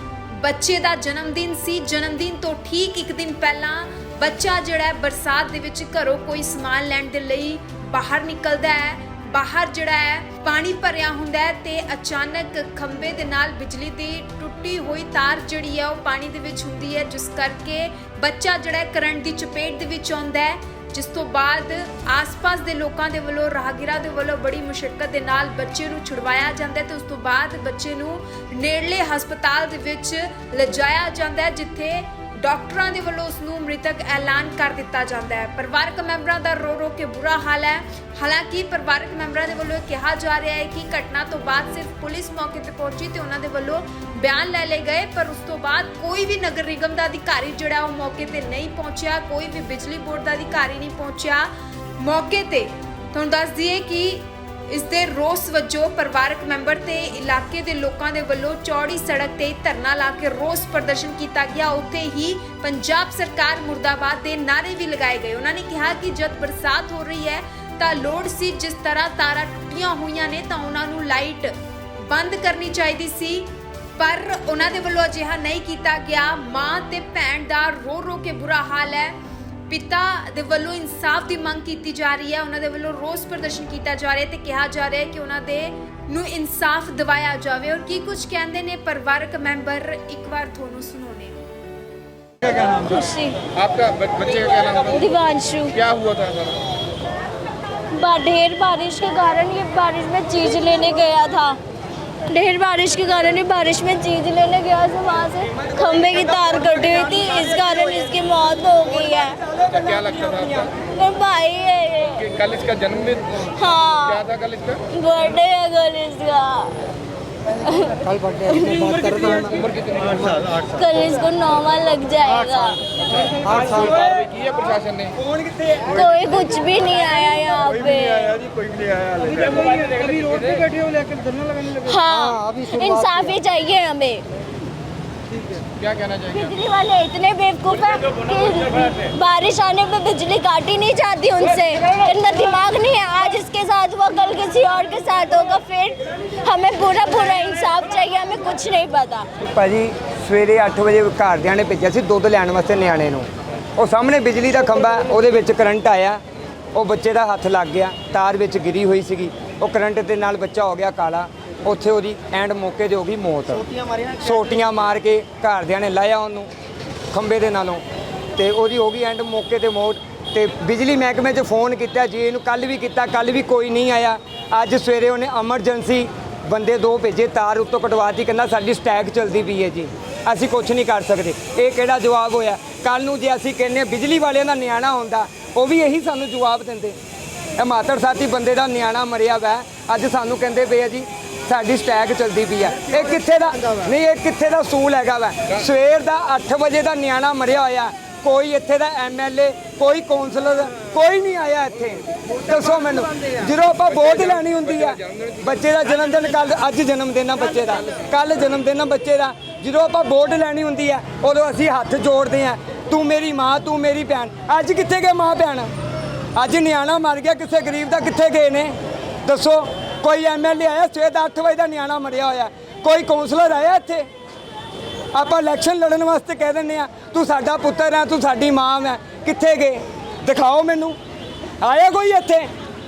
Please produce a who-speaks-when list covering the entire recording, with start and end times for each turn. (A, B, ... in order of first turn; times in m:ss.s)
0:00.3-1:19.2 A
1:19.7-1:31.4 A
1:32.4-1:36.0 B
1:33.7-1:34.2 C
1:36.0-1:36.5 C
1:37.9-1:41.6 B
1:42.3-1:50.0 B
1:50.0-1:50.5 C
1:50.6-1:56.8 B
1:52.7-1:53.1 C
1:57.5-2:02.8 B
2:03.4-2:03.7 B
2:04.2-2:05.1 C
2:05.7-2:14.2 B
2:16.1-2:29.3 B
2:29.4-2:36.2 D
2:36.7-2:46.5 D
2:47.1-2:47.8 D
2:48.4-3:07.0 D
3:07.6-3:35.7 D
3:36.3-3:44.1 D
3:45.1-3:51.0 D
3:51.6-3:52.5 D